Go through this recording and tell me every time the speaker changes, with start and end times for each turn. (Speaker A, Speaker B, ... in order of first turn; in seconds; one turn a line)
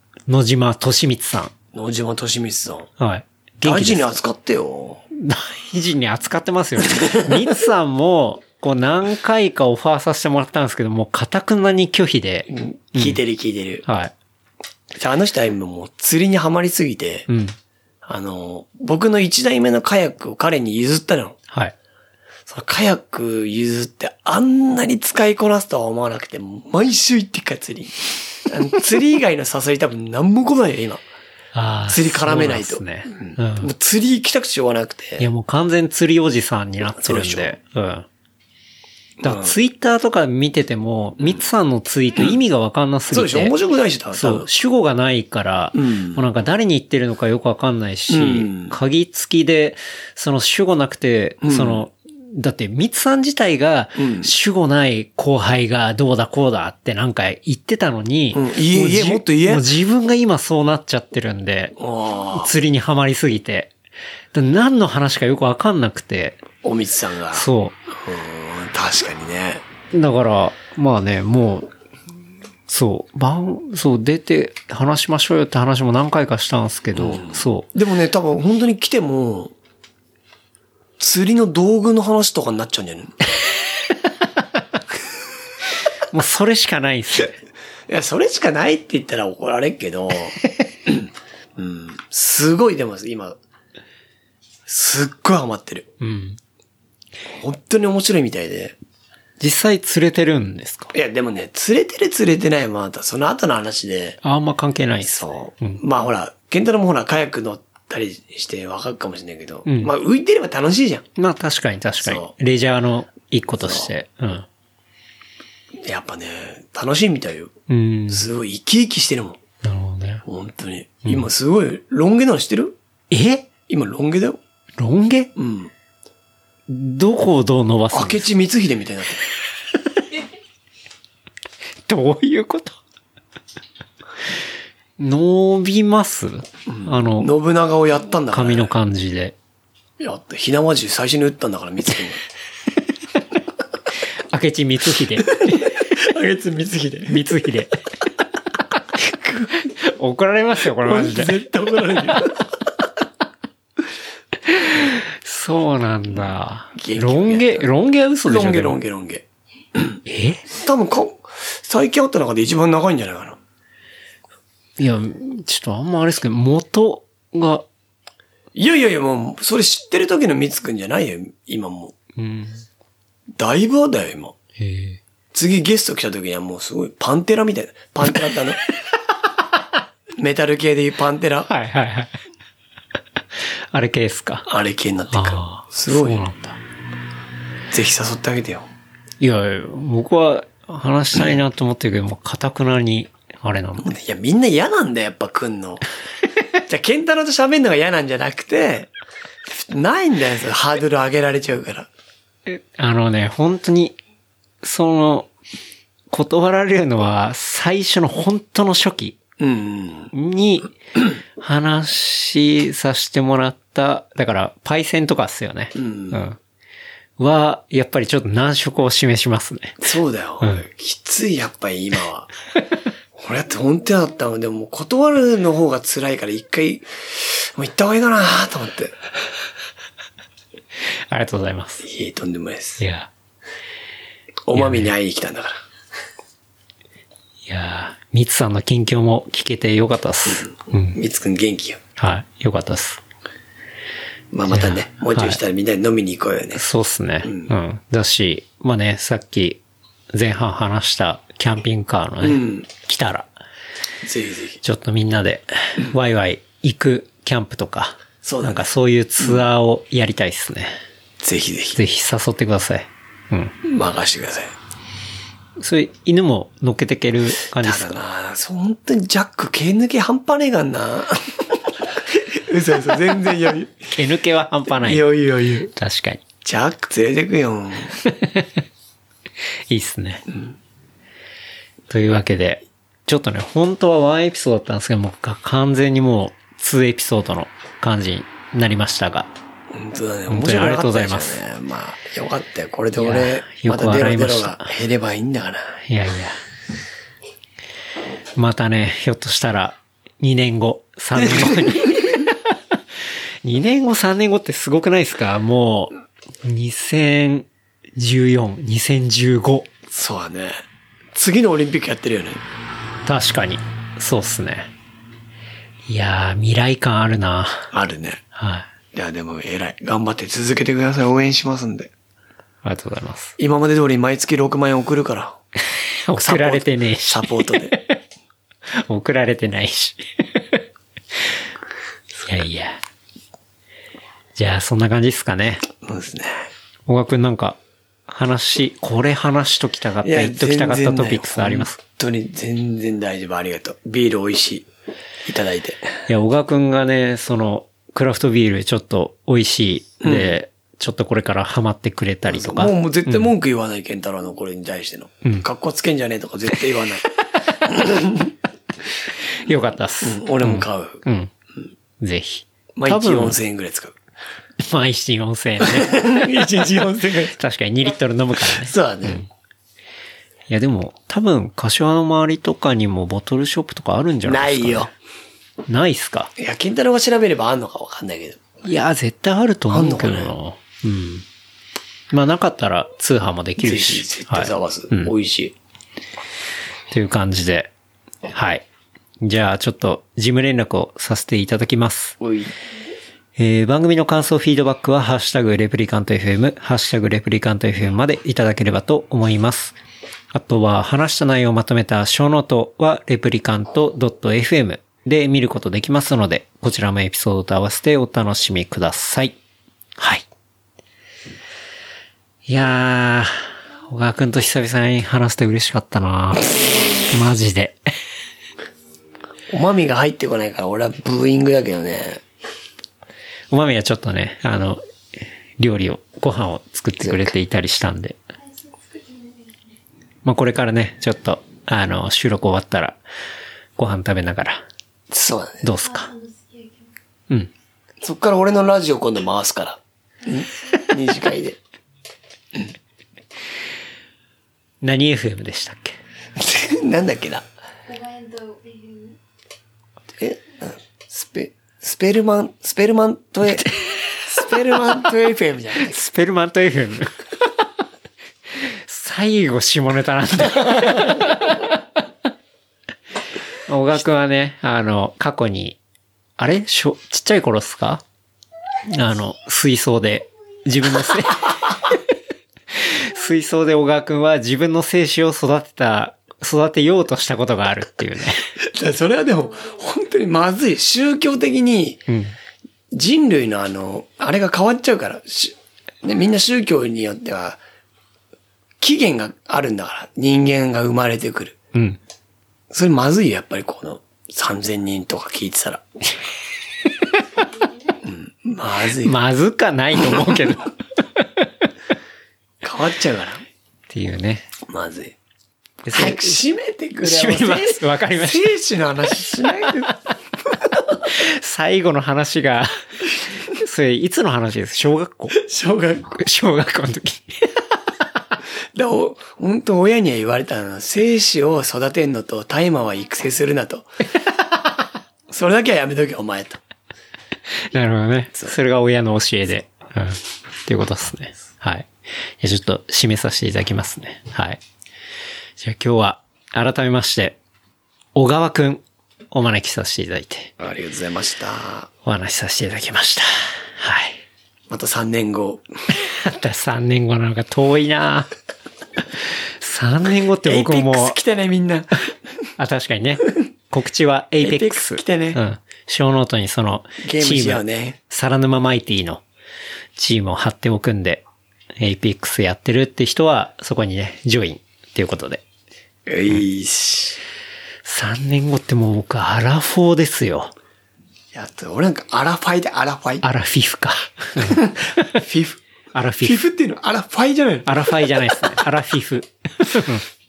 Speaker A: 0.3-1.5
Speaker B: 1.7-2.9
Speaker A: 3.0-4.1
Speaker B: 3.6-5.0
Speaker A: 5.1-13.2
Speaker B: 12.5-13.8
Speaker A: 13.8-14.1
Speaker B: 14.9-17.3
Speaker A: 17.3-17.5
Speaker B: 18.0-21.4
Speaker A: 21.5-21.7
Speaker B: 22.5-31.0
Speaker A: 31.5-33.7
Speaker B: 31.9-35.3
Speaker A: 35.2-38.0
Speaker B: 37.0-37.5
Speaker B: 39.2-39.5
Speaker A: 39.2-43.5
Speaker B: 43.1-44.5
Speaker A: 44.1-61.8
Speaker B: 45.7-46.2
Speaker B: 48.1-48.7
Speaker B: 51.4-51.8
Speaker B: 54.0-54.3
Speaker B: 58.3-59.7
Speaker B: 61.8-62.5
Speaker A: 62.3-63.7
Speaker A: 64.3-66.4
Speaker B: 66.6-69.6
Speaker A: 67.3-67.7
Speaker A: 69.9-71.7
Speaker A: 72.7-77.7
Speaker B: 76.9-79.5
Speaker B: 81.0-83.1
Speaker A: 86.1-87.4
Speaker B: 87.9-90.3
Speaker B: 90.9-93.4
Speaker B: 94.7-95.9
Speaker A: 96.0-96.4
Speaker B: 97.3-98.8
Speaker A: 99.4-100.9
Speaker B: 100.9-104.2
Speaker A: 104.2-105.8
Speaker B: 105.0-111.0
Speaker A: 109.7-109.9
Speaker A: 111.2-114.5
Speaker B: 112.0-112.3
Speaker B: 113.5-113.9
Speaker B: 115.8-117.5
Speaker A: 117.7-118.2
Speaker B: 118.1-119.4
Speaker A: 119.6-120.2
Speaker B: 120.2-122.8
Speaker A: 123.1-123.5
Speaker B: 123.7-124.4
Speaker A: 124.8-125.3
Speaker B: 125.3-125.7
Speaker A: 126.7-128.3
Speaker B: 127.9-129.2
Speaker A: 131.9-132.8
Speaker A: 135.0-137.3
Speaker B: 136.7-138.7
Speaker A: 138.3-139.3
Speaker B: 140.0-142.2
Speaker A: 144.3-145.7
Speaker B: 145.4-147.2
Speaker A: 147.1-147.7
Speaker B: 149.0-149.5
Speaker A: 149.7-151.4
Speaker B: 150.8-152.4
Speaker A: 154.5-158.8
Speaker B: 156.7-157.7
Speaker B: 158.2-163.4
Speaker A: 160.1-160.4
Speaker A: 164.8-167.6
Speaker B: 168.5-171.9
Speaker A: 172.2-172.6
Speaker B: 173.3-174.3
Speaker A: 174.6-175.0
Speaker B: 175.3-178.6
Speaker B: 180.2-181.5
Speaker A: 181.5-182.1
Speaker A: 183.7-184.5
Speaker B: 184.5-186.2
Speaker A: 185.1-186.6
Speaker B: 187.7-188.7
Speaker A: 189.2-193.9
Speaker B: 193.8-195.8
Speaker B: 196.6-198.9
Speaker B: 199.5-201.9
Speaker A: 202.5-203.9
Speaker A: 204.6-205.3
Speaker A: 206.1-209.2
Speaker B: 209.4-210.1
Speaker A: 210.1-210.7
Speaker A: 211.4-216.4
Speaker B: 215.7-216.2
Speaker A: 217.2-220.7
Speaker B: 219.8-222.3
Speaker B: 223.1-228.9
Speaker A: 231.1-231.8
Speaker B: 231.8-232.8
Speaker A: 232.8-233.1
Speaker B: 234.4-235.6
Speaker A: 234.5-234.9
Speaker A: 237.5-241.0
Speaker B: 240.3-241.8
Speaker A: 242.0-243.0
Speaker B: 244.3-246.6
Speaker A: 244.5-245.4
Speaker A: 246.6-249.6
Speaker B: 247.2-247.5
Speaker A: 250.1-253.3
Speaker B: 252.2-252.7
Speaker B: 254.0-254.6
Speaker A: 254.6-260.7
Speaker B: 258.2-258.6
Speaker B: 261.2-261.8
Speaker A: 261.7-263.5
Speaker B: 263.6-264.5
Speaker A: 265.6-268.0
Speaker B: 267.5-273.8
Speaker A: 273.9-275.1
Speaker B: 274.7-275.7
Speaker A: 275.7-276.2
Speaker B: 276.4-277.9
Speaker A: 278.0-278.6
Speaker A: 279.7-280.2
Speaker B: 280.3-280.5
Speaker A: 281.9-289.3
Speaker B: 289.7-295.8
Speaker A: 290.3-291.4
Speaker A: 292.9-294.7
Speaker A: 295.9-296.4
Speaker A: 298.4-302.4
Speaker B: 301.2-301.9
Speaker A: 303.4-309.7
Speaker B: 309.9-312.4
Speaker A: 313.1-314.7
Speaker A: 315.9-317.7
Speaker B: 317.7-318.2
Speaker A: 318.3-318.7
Speaker B: 318.9-321.9
Speaker A: 322.6-323.3
Speaker B: 323.4-325.4
Speaker A: 326.1-328.0
Speaker B: 326.1-327.7
Speaker A: 328.8-330.6
Speaker A: 332.2-332.8
Speaker A: 334.4-335.7
Speaker B: 335.8-336.5
Speaker A: 336.9-341.8
Speaker B: 340.0-344.7
Speaker B: 345.2-345.9
Speaker A: 346.1-353.3
Speaker B: 350.0-350.4
Speaker B: 352.3-357.1
Speaker B: 357.6-358.3
Speaker A: 359.4-361.3
Speaker B: 360.0-361.0
Speaker A: 362.0-363.4
Speaker B: 362.8-364.0
Speaker A: 364.6-366.4
Speaker B: 365.6-367.4
Speaker A: 367.3-369.3
Speaker B: 368.5-369.2
Speaker A: 370.5-374.9
Speaker B: 374.2-374.9
Speaker A: 375.7-376.3
Speaker B: 376.4-378.4
Speaker A: 378.6-381.2
Speaker B: 379.7-380.3
Speaker A: 382.1-385.1
Speaker B: 383.6-385.6
Speaker A: 386.9-387.7
Speaker A: 388.3-388.6
Speaker A: 389.2-392.2
Speaker B: 392.2-392.5
Speaker A: 393.4-399.8
Speaker A: 400.3-409.4
Speaker A: 410.0-410.2
Speaker A: 412.5-413.3
Speaker A: 413.9-416.5
Speaker A: 417.1-417.8
Speaker B: 419.5-422.2
Speaker A: 423.5-424.8
Speaker A: 425.6-428.2
Speaker B: 427.0-427.3
Speaker C: 428.3-429.8
Speaker A: 430.2-433.0
Speaker A: 433.8-434.6
Speaker B: 435.1-435.6
Speaker A: 435.6-436.1
Speaker C: 435.8-436.9
Speaker B: 438.0-441.6
Speaker A: 444.8-446.0
Speaker B: 446.4-447.4
Speaker C: 447.9-449.2
Speaker B: 450.1-456.0
Speaker A: 455.9-457.1
Speaker A: 458.9-461.7
Speaker A: 463.7-465.8
Speaker A: 466.4-468.0
Speaker A: 468.9-471.8
Speaker A: 472.7-478.4
Speaker B: 478.6-482.1
Speaker A: 482.1-482.3
Speaker B: 482.9-487.6
Speaker B: 488.8-491.6
Speaker A: 491.7-492.0
Speaker B: 492.7-495.8
Speaker C: 497.4-498.1
Speaker B: 498.0-499.2
Speaker A: 499.0-501.5
Speaker B: 502.6-503.4
Speaker A: 503.9-504.5
Speaker B: 504.7-505.1
Speaker A: 505.8-506.4
Speaker B: 505.9-510.0
Speaker A: 507.0-508.5
Speaker A: 511.0-512.7
Speaker A: 513.3-515.4
Speaker B: 515.4-516.1
Speaker A: 516.1-517.5
Speaker B: 518.7-523.9
Speaker B: 525.3-526.6
Speaker A: 527.7-531.9
Speaker A: 532.4-534.6
Speaker A: 535.6-537.4
Speaker A: 538.1-540.5
Speaker B: 540.6-541.9
Speaker A: 542.0-544.2
Speaker B: 544.7-545.6
Speaker A: 545.9-548.3
Speaker A: 549.6-551.2
Speaker B: 550.4-551.9
Speaker A: 552.6-559.2
Speaker B: 554.4-555.4
Speaker B: 557.0-558.0
Speaker A: 560.0-561.2
Speaker A: 561.8-565.4
Speaker B: 566.0-567.2
Speaker A: 567.8-570.5
Speaker B: 571.3-573.2
Speaker A: 573.2-575.0
Speaker B: 574.4-575.6
Speaker A: 575.9-576.4
Speaker B: 576.2-578.0
Speaker A: 577.6-580.0